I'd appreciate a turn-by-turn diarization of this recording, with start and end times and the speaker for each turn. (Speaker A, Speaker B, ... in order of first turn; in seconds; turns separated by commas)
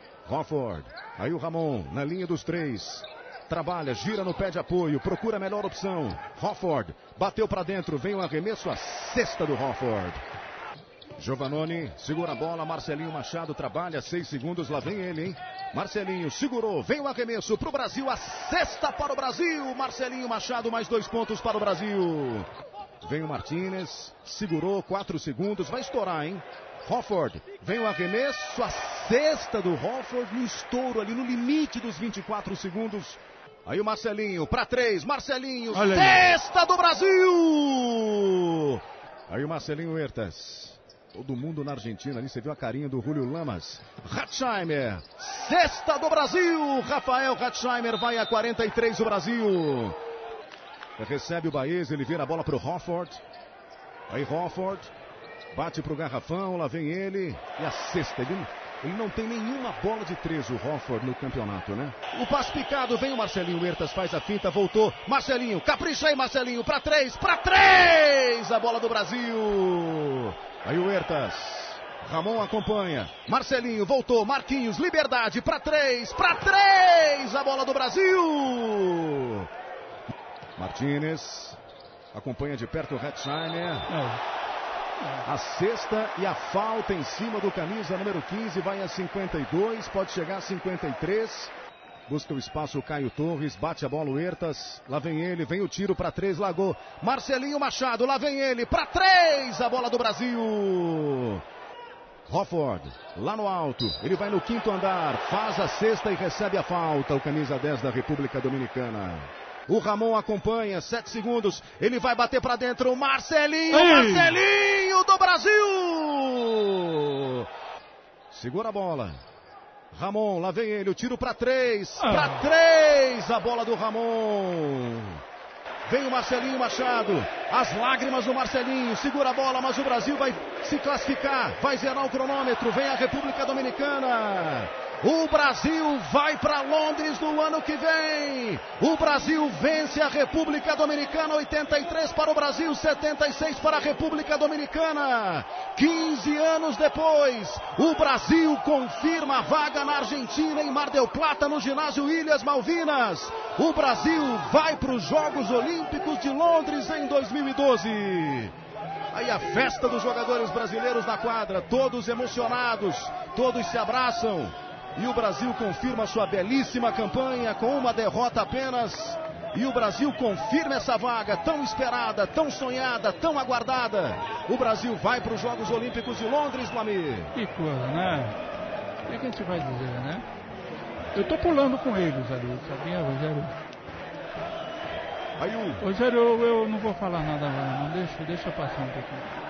Speaker A: 0.2-10.2, Speaker A: 11.2-22.5, Speaker A: 23.0-50.0, Speaker B: 35.7-36.3, Speaker A: 51.0-53.2, Speaker A: 54.1-54.9, Speaker A: 55.5-79.5, Speaker A: 80.6-81.6, Speaker A: 82.1-83.9, Speaker B: 83.9-84.2, Speaker A: 85.2-91.5, Speaker A: 92.1-101.4, Speaker A: 102.3-117.5, Speaker B: 113.7-114.4, Speaker A: 118.3-119.2, Speaker A: 119.9-125.2, Speaker B: 122.0-122.5, Speaker A: 125.9-158.5, Speaker A: 159.1-177.3, Speaker B: 177.3-178.4, Speaker B: 179.1-180.2, Speaker B: 181.1-183.6, Speaker A: 185.4-185.8, Speaker B: 185.8-189.3